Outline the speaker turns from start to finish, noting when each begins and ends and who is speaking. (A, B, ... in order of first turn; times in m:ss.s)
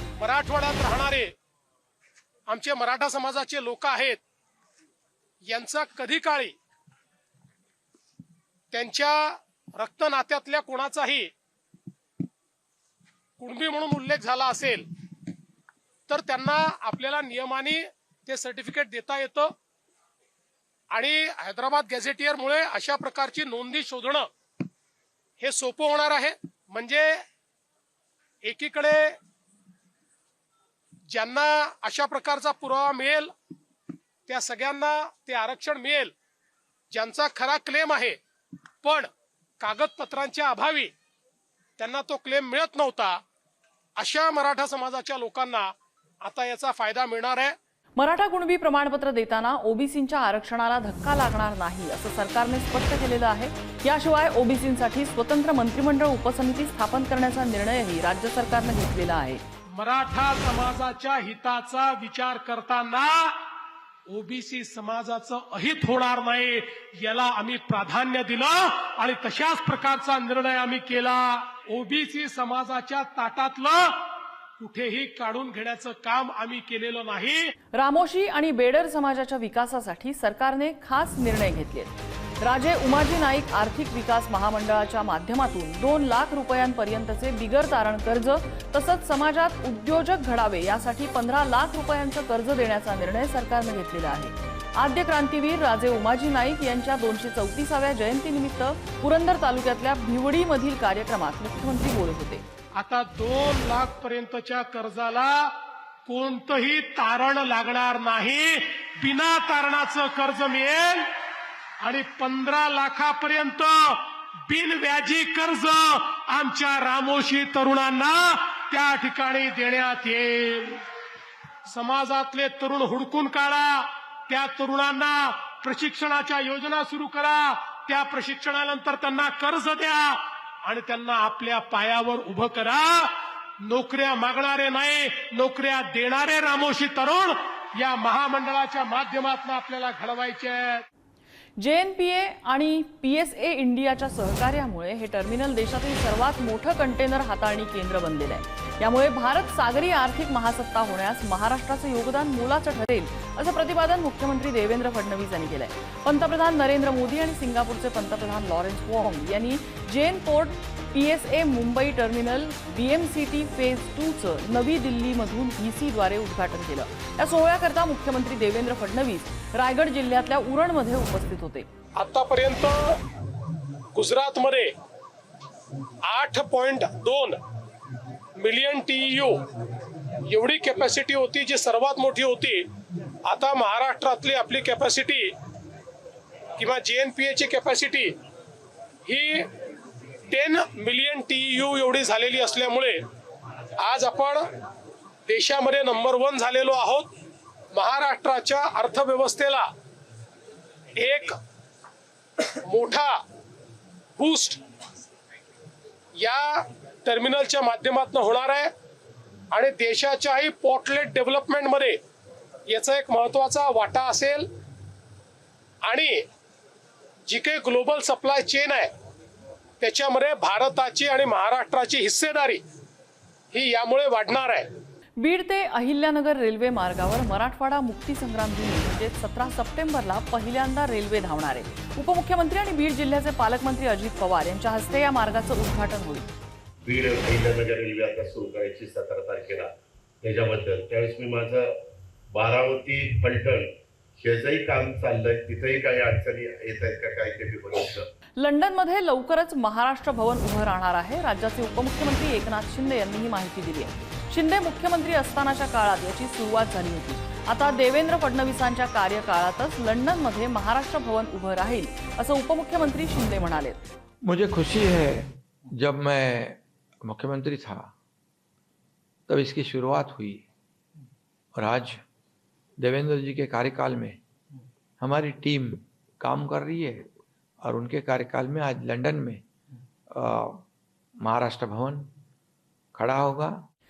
0:00.2-0:01.3 A
0:02.5-0:04.2 A
0:05.5-0:06.5 A
0:08.7-0:11.3 A
0:13.4-0:14.9 A
0:16.1-0:19.5 A
0:20.9-0:24.3 A
0:25.4-0:27.2 A
0:28.4-0:29.2 A
0:31.1-0:33.3 A
0:34.3-0:36.1 A
0:36.9-0:38.2 A
0:38.8-0:39.1 A
0:39.6-0:40.9 A
0:41.8-0:43.2 A
0:44.0-0:45.7 A
0:46.2-0:47.5 A
0:48.0-0:59.4 B
0:59.8-1:03.4 A
1:04.1-1:17.5 A
1:17.7-1:42.4 B
1:42.8-1:45.5 A
1:46.0-1:51.1 A
1:51.8-2:00.8 A
2:01.6-2:20.8 A
2:21.6-2:51.7 B
2:52.0-2:53.0 A
2:53.9-2:54.7 A
2:56.0-2:57.4 A
2:58.4-2:59.4 A
3:00.3-3:02.7 A
3:03.2-3:05.3 A
3:06.6-3:08.1 A
3:09.0-3:09.5 A
3:10.3-3:13.0 A
3:13.8-3:14.4 A
3:15.3-3:17.1 A
3:17.7-3:19.7 A
3:20.9-3:21.4 A
3:22.6-3:23.2 A
3:24.2-3:24.6 A
3:26.2-3:28.7 A
3:29.5-3:32.0 A
3:32.7-3:34.5 A
3:35.8-3:36.2 A
3:37.2-3:38.9 A
3:39.8-3:42.6 A
3:43.5-3:44.7 A
3:45.2-3:56.3 B
3:56.8-4:01.7 C
4:02.3-4:08.1 C
4:08.4-4:23.8 B
4:24.2-4:27.9 D
4:29.3-4:30.5 D
4:31.5-4:32.0 D
4:32.8-4:34.2 D
4:35.0-4:37.1 D
4:37.6-4:39.4 D
4:40.1-4:40.6 D
4:41.2-4:42.1 D
4:42.9-4:43.7 D